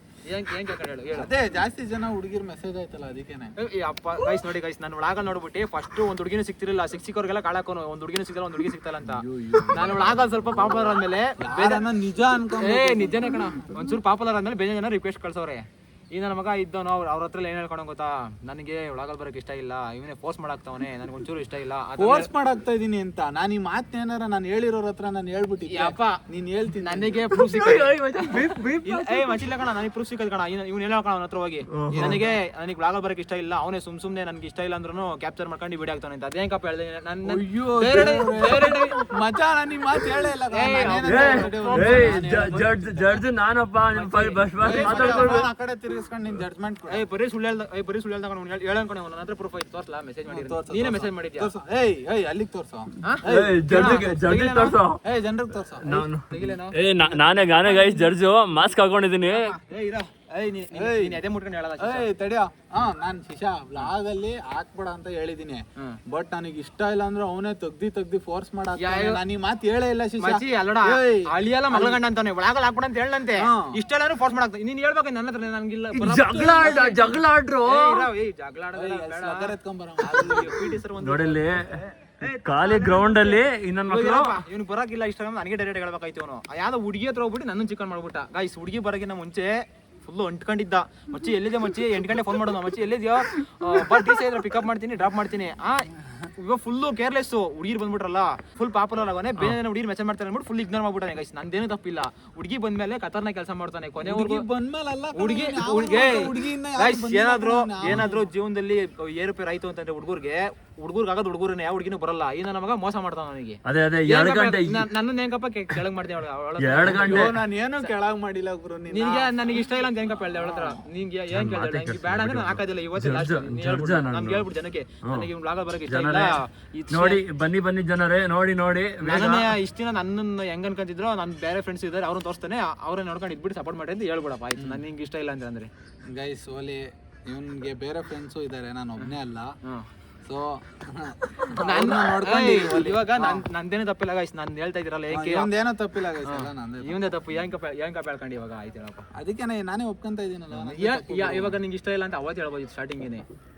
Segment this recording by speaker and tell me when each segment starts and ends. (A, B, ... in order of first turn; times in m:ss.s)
0:00.2-0:01.3 A
0:01.1-0:03.5 B
0:03.6-0:11.9 A
0:09.0-0:10.3 B
0:11.4-0:13.8 B
0:12.6-0:22.3 A
0:22.0-0:29.0 B
0:25.7-0:26.2 A
0:26.8-0:39.0 A
0:27.5-0:28.8 C
0:31.7-0:32.2 C
0:31.9-0:32.2 B
0:37.2-0:42.9 B
0:40.5-0:43.1 A
0:41.0-0:45.4 C
0:43.9-0:45.4 A
0:44.6-0:47.0 B
0:46.9-0:51.5 A
0:50.3-0:55.9 B
0:53.0-0:54.8 A
0:53.2-0:55.0 C
0:55.8-0:59.5 C
0:55.9-0:58.0 A
0:59.3-1:02.1 A
1:00.7-1:01.2 B
1:01.8-1:12.0 B
1:08.8-1:09.2 A
1:10.2-1:17.1 A
1:13.4-1:13.7 B
1:15.9-1:18.1 C
1:16.4-1:16.9 B
1:17.7-1:44.4 A
1:18.7-1:20.8 B
1:21.0-1:21.6 C
1:22.3-1:24.4 C
1:44.0-1:48.3 B
1:45.1-1:57.9 A
1:53.6-1:54.9 C
1:56.6-1:57.4 C
1:56.8-1:59.5 B
1:58.9-2:07.2 A
2:00.4-2:00.8 B
2:01.3-2:04.5 C
2:05.9-2:06.4 C
2:06.9-2:09.5 C
2:09.0-2:15.7 A
2:16.0-2:19.5 B
2:20.2-2:23.4 B
2:21.5-2:25.5 A
2:25.1-2:27.0 B
2:26.2-2:29.0 A
2:29.2-2:31.6 B
2:30.5-2:33.2 A